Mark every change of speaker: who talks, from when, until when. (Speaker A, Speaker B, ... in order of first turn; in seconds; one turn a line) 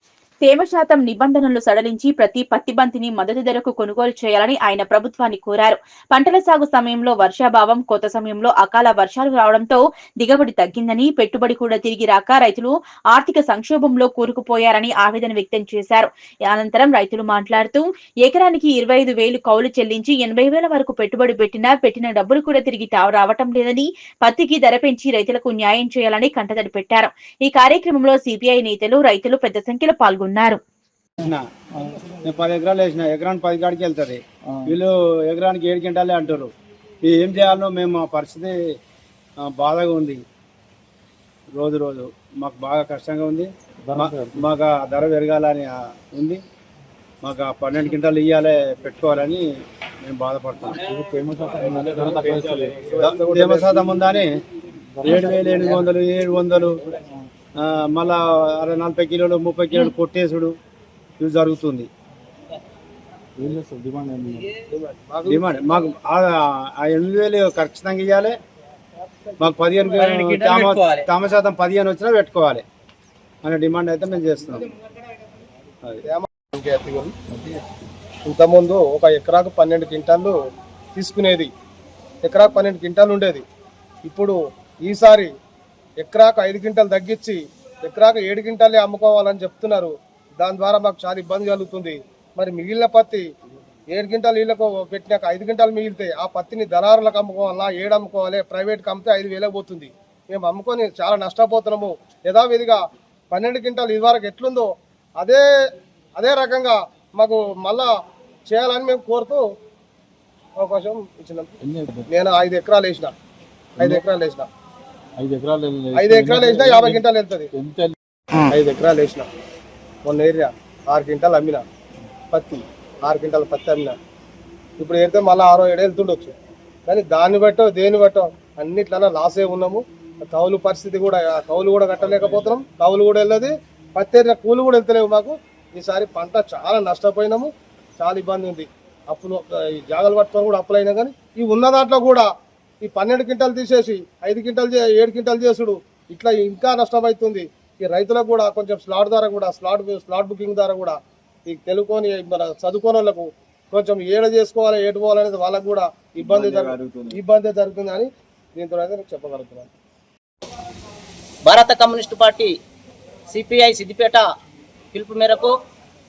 Speaker A: 0.4-30.6
Speaker B: 32.2-36.5
Speaker B: 37.0-38.6
Speaker B: 39.4-40.2
Speaker B: 41.5-46.4
Speaker C: 43.9-44.4
Speaker B: 47.2-49.5
Speaker B: 50.0-50.8
Speaker C: 50.9-52.9
Speaker D: 52.5-53.7
Speaker B: 52.9-54.3
Speaker C: 55.0-55.4
Speaker B: 55.0-56.8
Speaker B: 57.6-60.5
Speaker B: 61.2-61.9
Speaker C: 63.4-64.5
Speaker D: 64.7-65.4
Speaker B: 65.2-68.4
Speaker B: 69.4-72.6
Speaker B: 73.4-74.7
Speaker D: 76.0-77.1
Speaker D: 78.2-80.3
Speaker D: 80.9-81.5
Speaker D: 82.2-83.4
Speaker D: 84.0-85.3
Speaker D: 86.0-93.2
Speaker D: 93.9-105.4
Speaker D: 106.2-107.9
Speaker D: 108.5-109.5
Speaker D: 110.6-111.5
Speaker C: 111.6-112.1
Speaker D: 112.1-113.1
Speaker D: 113.8-114.5
Speaker C: 115.2-117.0
Speaker D: 115.9-117.5
Speaker C: 117.5-118.4
Speaker D: 118.5-119.3
Speaker D: 120.0-121.6
Speaker D: 122.3-124.0
Speaker D: 124.8-126.3
Speaker D: 126.9-142.3
Speaker D: 142.8-159.7
Speaker B: 156.2-157.2
Speaker E: 161.4-162.5
Speaker E: 163.3-164.2
Speaker E: 164.9-165.5